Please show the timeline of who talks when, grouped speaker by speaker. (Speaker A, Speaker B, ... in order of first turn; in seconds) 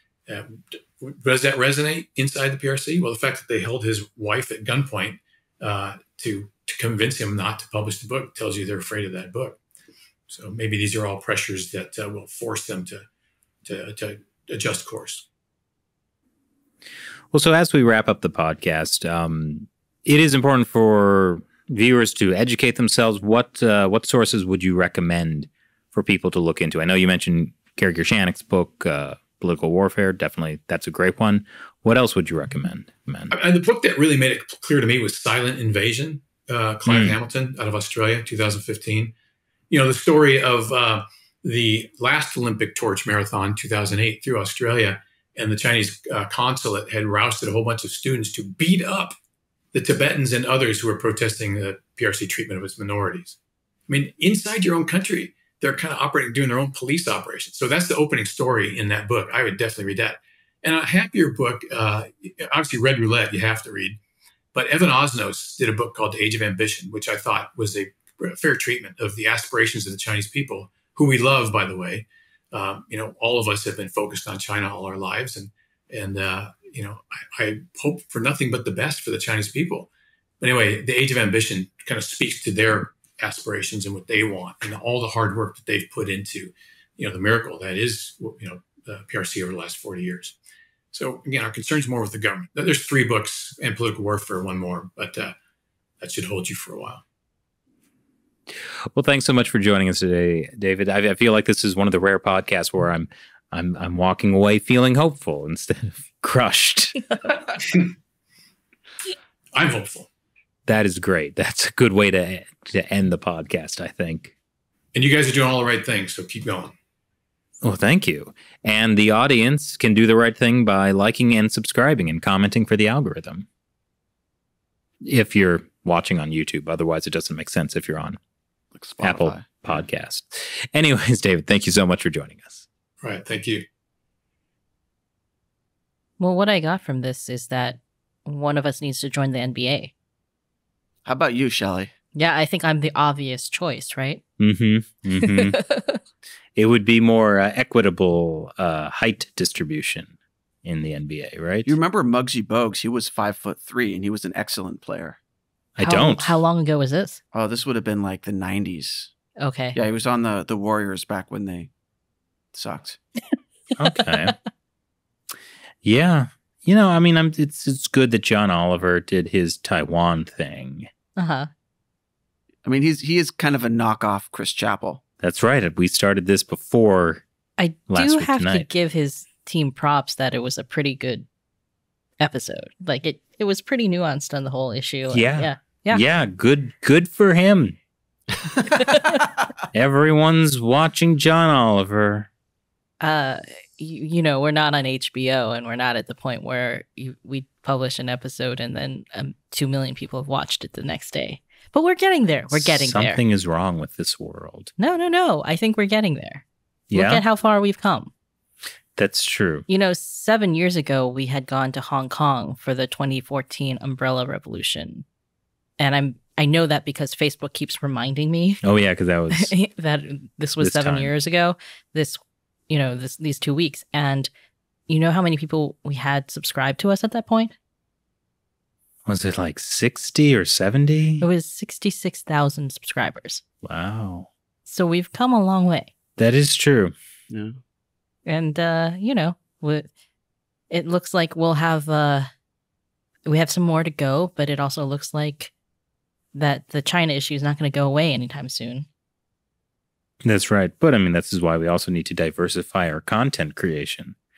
Speaker A: 0.3-9.6, 10.3-13.1, 13.6-15.3, 33.3-39.1, 39.7-49.1, 49.7-64.0, 64.5-79.9, 80.4-90.4, 90.9-95.3, 96.0-97.0, 109.5-110.1, 114.9-116.7, 133.0-133.7
Speaker B: 17.3-33.4, 36.9-37.2, 98.5-107.4, 110.7-114.3, 117.6-123.5, 125.0-128.2, 129.0-132.6, 144.4-145.6, 146.6-150.1, 150.6-151.8, 155.8-156.4, 163.8-164.4, 165.8-170.9, 175.2-177.2, 177.9-178.7, 185.1-187.8, 189.7-192.3, 202.5-204.7, 206.9-207.2, 209.0-209.7, 218.6-219.5, 220.6-221.1, 229.1-231.3, 233.6-234.3, 236.2-236.9, 250.2-254.2
Speaker C: 128.8-129.8, 141.1-141.9, 151.7-155.2, 157.3-159.1, 159.8-161.7, 162.5-163.0, 172.6-175.0, 237.3-237.6
Speaker D: 136.2-139.9, 142.1-144.2, 145.2-146.0, 155.8-157.2, 159.4-159.8, 163.9-164.3, 171.2-171.5, 177.6-181.3, 182.2-186.0, 188.7-189.2, 193.0-203.2, 204.8-208.1, 209.7-215.1, 215.8-218.6, 219.3-224.3, 224.9-227.6, 231.2-233.4, 234.7-235.9, 238.3-239.9, 240.7-242.3, 243.3-245.5, 246.3-248.9